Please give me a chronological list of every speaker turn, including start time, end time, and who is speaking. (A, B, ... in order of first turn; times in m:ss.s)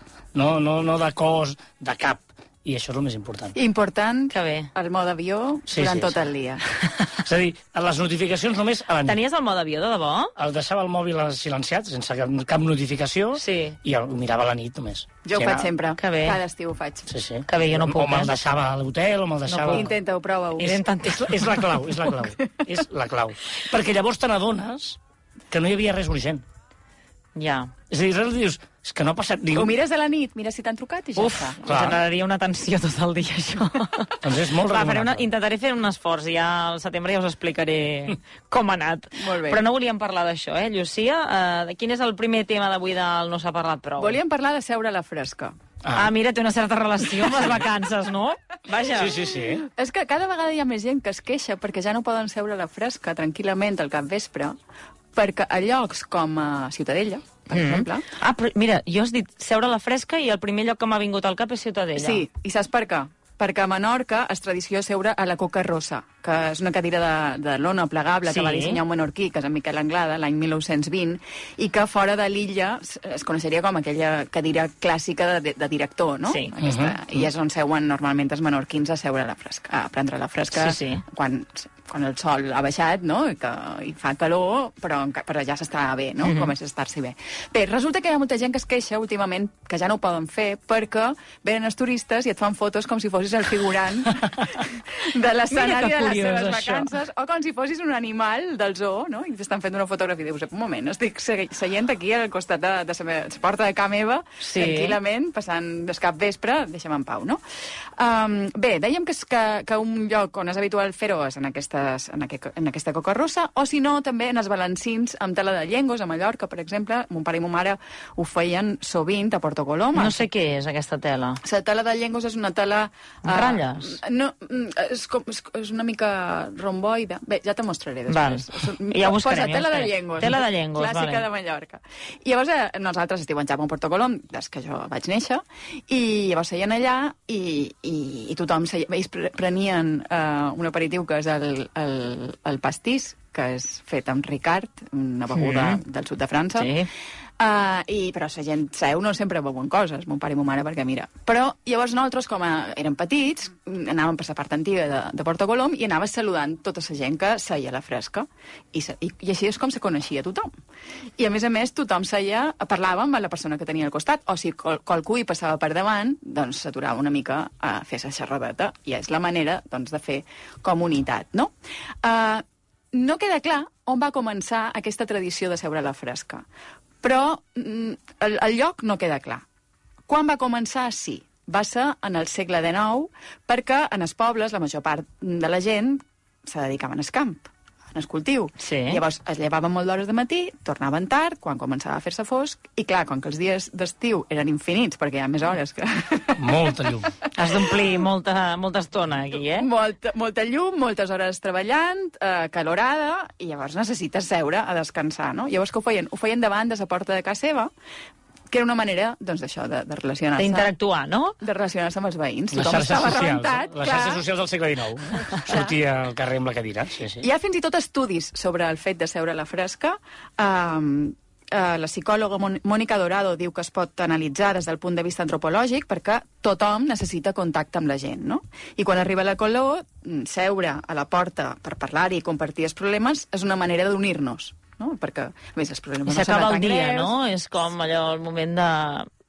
0:00.4-0:03.6 A
0:03.6-0:06.6 B
0:04.3-0:04.7 C
0:05.7-0:06.2 A
0:07.1-0:09.2 A
0:09.0-0:10.4 C
0:10.4-0:15.7 A
0:13.4-0:13.8 C
0:15.2-0:17.2 B
0:16.0-0:16.4 C
0:17.1-0:19.9 A
0:17.5-0:18.3 C
0:19.5-0:19.9 C
0:19.7-0:20.8 B
0:20.6-0:21.8 C
0:20.6-0:25.0 A
0:25.5-0:26.4 A
0:27.4-0:27.7 C
0:27.9-0:29.7 A
0:29.6-0:31.6 B
0:31.2-0:44.2 C
0:31.6-0:32.0 A
0:34.2-0:35.3 A
0:39.2-0:39.6 B
0:44.0-0:45.5 B
0:45.8-0:46.1 A
0:45.9-0:49.2 C
0:49.0-0:49.7 A
0:49.7-0:54.6 B
0:55.2-0:58.1 B
0:57.5-1:02.2 C
1:02.0-1:47.4 B
1:08.3-1:08.8 C
1:16.6-1:17.0 A
1:20.5-1:21.0 C
1:26.2-1:26.5 C
1:35.5-1:36.9 A
1:44.4-1:45.0 C
1:48.0-2:00.2 B
2:00.0-2:01.4 C
2:01.4-2:26.7 B
2:03.2-2:04.0 C
2:08.1-2:11.2 C
2:25.3-2:25.8 C
2:26.6-2:26.9 C
2:27.4-2:40.5 B
2:41.2-2:51.5 B
2:52.0-2:56.5 B
2:57.0-2:59.4 B
3:00.1-3:18.0 B
3:08.6-3:09.0 C
3:16.4-3:17.1 A
3:17.4-3:19.7 C
3:19.5-3:27.7 B
3:28.5-3:30.7 B
3:30.4-3:31.4 C
3:31.4-3:34.2 B
3:32.5-3:37.3 A
3:35.5-3:35.8 B
3:37.2-3:57.2 B
3:56.1-3:59.1 C